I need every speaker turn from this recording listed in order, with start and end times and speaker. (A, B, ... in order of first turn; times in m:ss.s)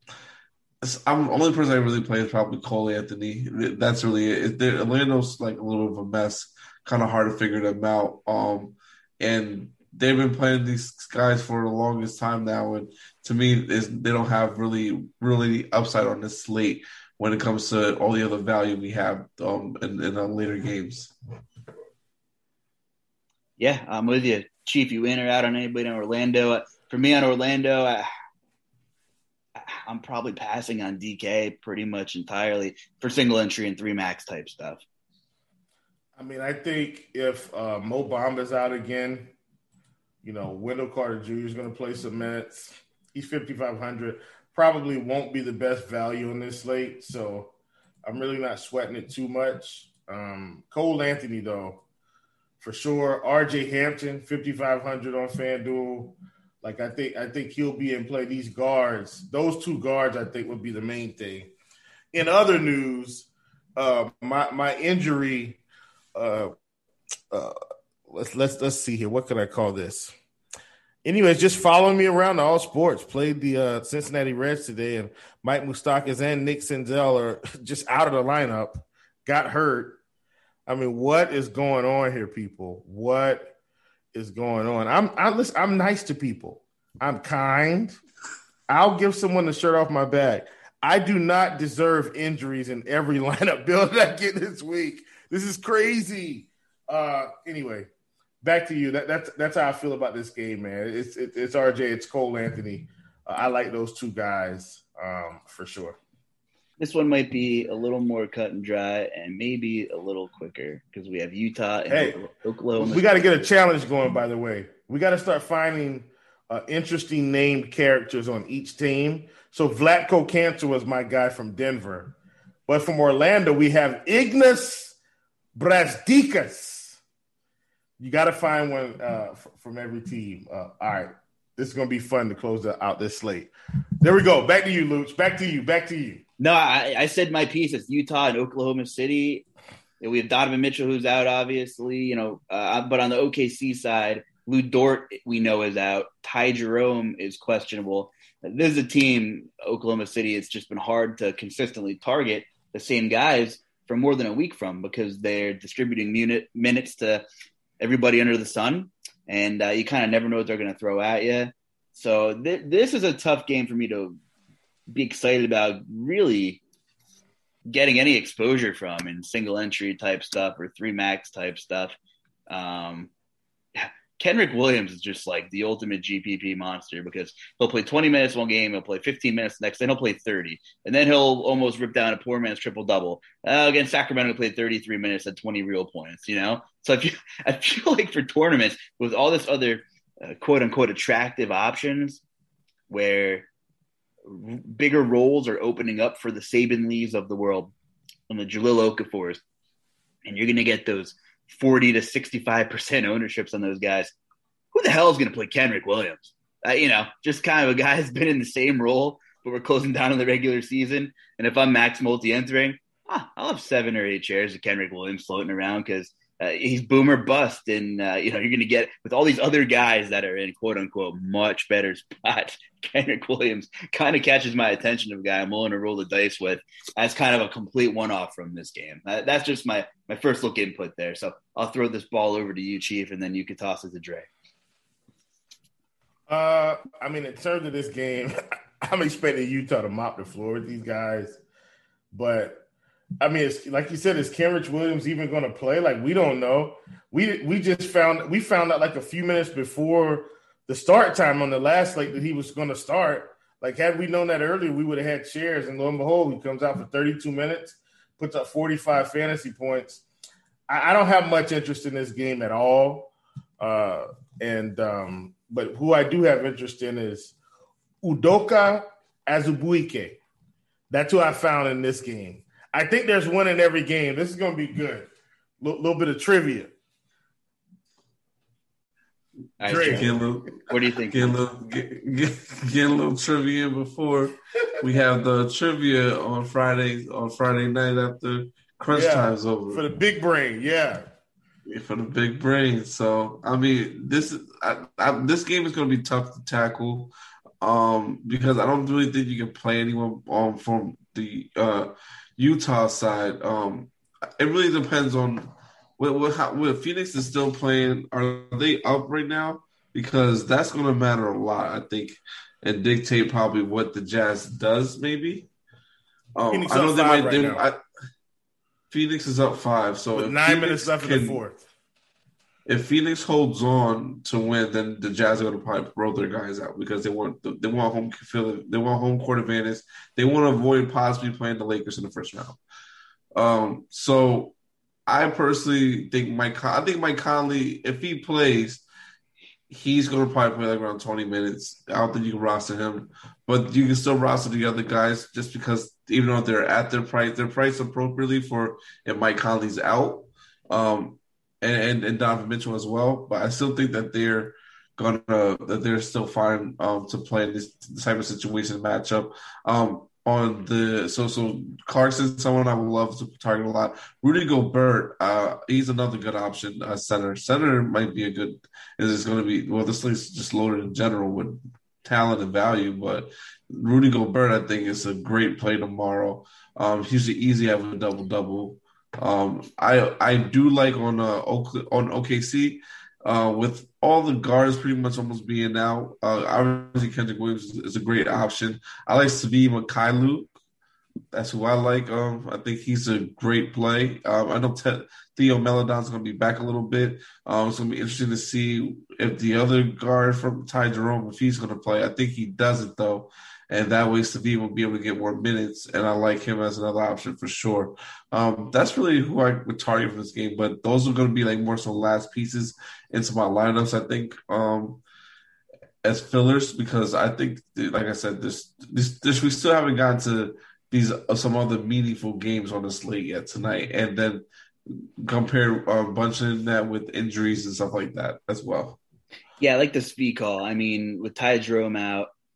0:00.8-0:21.1 A
0:23.6-0:28.1 B
0:29.6-0:34.8 B
0:36.2-0:39.3 C
0:40.2-0:47.5 C
0:48.0-0:51.8 C
0:52.6-1:01.5 C
1:02.1-1:05.6 C
1:06.2-1:06.5 C
1:07.3-1:07.6 C
1:08.1-1:10.2 C
1:11.0-1:20.0 C
1:20.7-1:23.5 C
1:24.1-1:28.0 C
1:28.7-1:37.9 C
1:38.4-1:46.0 C
1:46.8-1:53.2 B
1:51.9-1:52.2 C
1:52.8-2:02.2 C
2:02.7-2:05.0 C
2:05.6-2:07.0 C
2:08.0-2:16.2 C
2:16.4-2:19.4 B
2:20.0-2:37.2 B
2:37.8-2:44.2 B
2:44.9-2:46.6 B
2:47.7-2:52.0 B
2:52.5-2:53.1 B
2:53.8-3:12.2 B
3:12.9-3:13.5 B
3:14.2-3:17.7 B
3:18.3-3:19.4 B
3:20.2-3:24.1 B
3:24.7-3:54.3 B
3:56.3-4:01.4 C
4:02.1-4:02.6 C
4:03.2-4:20.0 C
4:20.7-4:27.4 C
4:28.0-4:30.2 C
4:30.9-4:36.7 C
4:39.6-4:40.1 B
4:39.7-4:49.8 A
4:39.7-4:40.1 C
4:40.6-4:41.4 B
4:48.9-4:51.0 C
4:51.7-5:15.5 A
5:16.4-5:17.8 A
5:16.5-5:17.6 C
5:18.9-5:21.4 A
5:20.2-5:21.6 C
5:22.7-5:32.6 A
5:33.4-5:34.6 A
5:35.1-5:38.8 A
5:39.7-6:30.5 A
6:31.3-6:55.0 A
6:56.0-7:09.0 A
7:09.6-7:12.3 B